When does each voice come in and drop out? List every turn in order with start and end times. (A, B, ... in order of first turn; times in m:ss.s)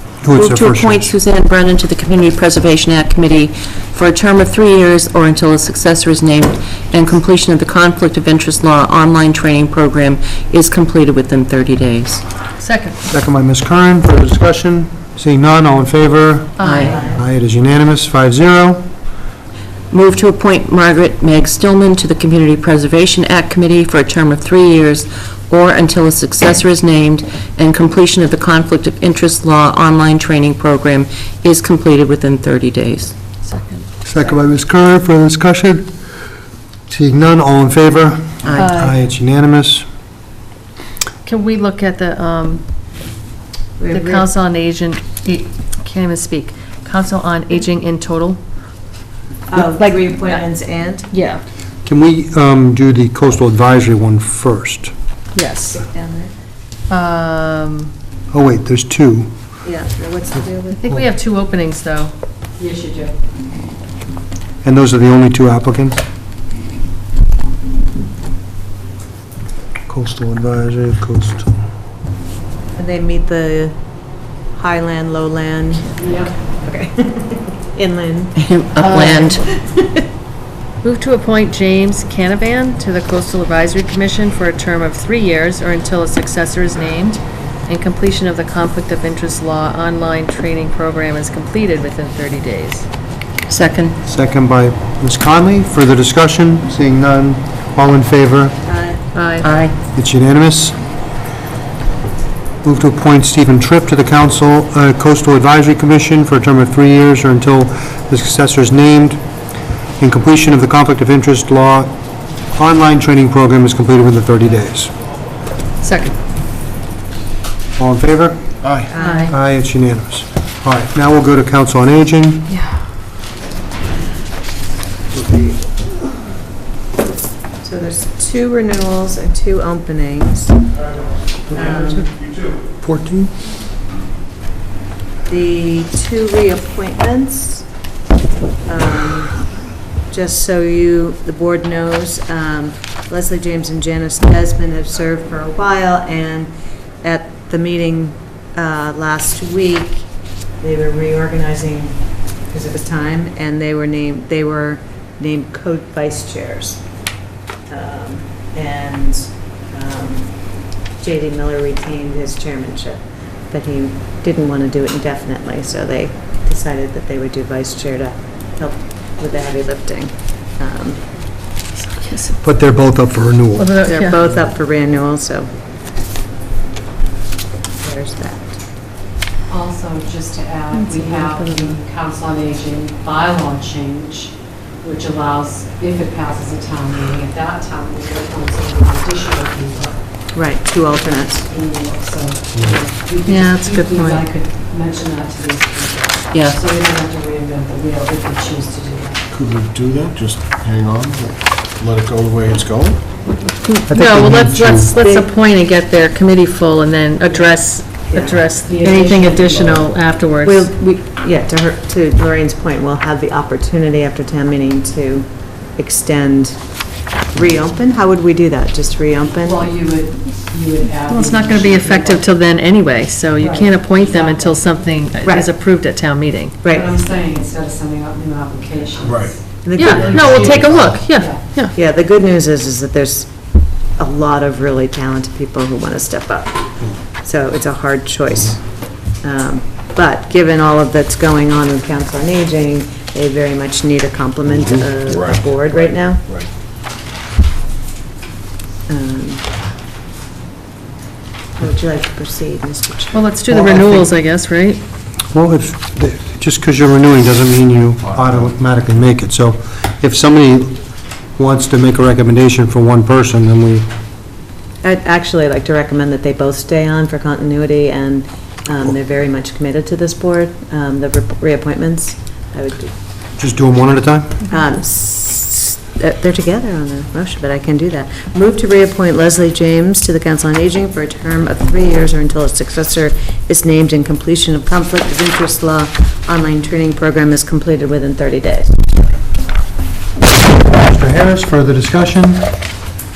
0:00.2-0:01.1 A
0:00.3-0:12.2 B
0:12.6-0:13.0 C
0:13.1-0:18.9 A
0:16.6-0:17.0 C
0:16.6-0:17.0 B
0:16.8-0:17.2 D
0:19.9-0:33.2 B
0:33.4-0:33.9 C
0:34.0-0:35.9 A
0:36.9-0:39.8 A
0:38.4-0:38.7 B
0:38.6-0:39.0 C
0:41.2-0:42.6 C
0:43.8-0:44.3 D
0:43.9-0:48.4 C
0:49.5-0:51.1 D
0:49.6-0:50.4 C
0:51.1-0:51.4 C
0:51.8-0:54.9 A
0:55.4-0:55.8 C
0:55.7-0:56.3 D
0:56.9-0:57.9 C
0:58.3-0:59.3 A
0:59.6-1:00.8 D
1:00.7-1:02.1 C
1:02.6-1:03.1 E
1:04.6-1:06.0 A
1:09.9-1:11.5 A
1:12.8-1:13.8 D
1:14.5-1:18.4 D
1:16.0-1:16.3 E
1:18.4-1:19.4 B
1:18.8-1:19.2 C
1:19.1-1:20.0 D
1:20.8-1:32.9 C
1:33.5-1:34.0 B
1:34.0-1:38.6 A
1:38.6-1:39.0 D
1:39.2-1:39.5 C
1:39.4-1:39.7 B
1:39.9-1:40.8 A
1:42.6-1:49.2 A
1:50.0-1:52.0 A
1:52.5-1:54.9 A
1:55.8-1:56.2 C
1:57.8-1:58.5 A
1:58.6-1:58.9 F
1:58.9-1:59.3 D
1:59.0-1:59.3 C
1:59.3-2:02.5 A
2:05.1-2:05.6 A
2:07.6-2:10.6 D
2:11.5-2:12.1 D
2:11.5-2:13.3 A
2:15.3-2:17.6 D
2:18.7-2:19.4 D
2:20.1-2:26.5 D
2:27.0-2:30.1 D
2:30.6-2:32.0 D
2:32.5-2:36.8 D
2:37.7-2:40.4 D
2:41.0-2:51.0 D
2:51.8-2:52.4 C
2:52.4-2:53.7 A
2:53.6-2:54.2 C
2:53.8-2:55.5 D
2:57.8-2:58.6 D
2:59.5-3:10.0 E
3:01.0-3:01.6 D
3:10.3-3:11.5 D
3:11.4-3:19.2 E
3:13.3-3:14.3 C
3:16.3-3:16.6 B
3:19.3-3:23.0 F
3:23.7-3:30.7 C
3:23.9-3:24.9 A
3:25.0-3:25.3 D
3:28.1-3:28.4 D
3:28.6-3:29.7 E
3:30.4-3:36.6 D
3:37.3-3:39.7 D
3:39.5-3:42.2 E
3:41.1-3:46.6 C
3:43.4-3:44.6 E
3:45.2-3:45.5 D
3:46.6-3:47.0 D
3:46.7-3:49.3 E
3:49.0-3:51.0 F
3:49.6-3:50.7 D
3:49.7-3:51.7 C
3:51.2-3:51.5 E
3:51.7-3:53.3 D
3:54.0-3:56.6 D
3:57.2-4:06.2 D
4:04.5-4:06.5 F
4:08.9-4:09.4 D
4:11.6-4:13.2 D
4:13.1-4:14.8 C
4:13.5-4:14.0 A
4:15.3-4:20.8 A
4:21.4-4:23.9 A
4:24.8-4:32.9 D
4:33.4-4:34.4 A
4:34.5-4:48.7 D
4:50.8-4:52.5 A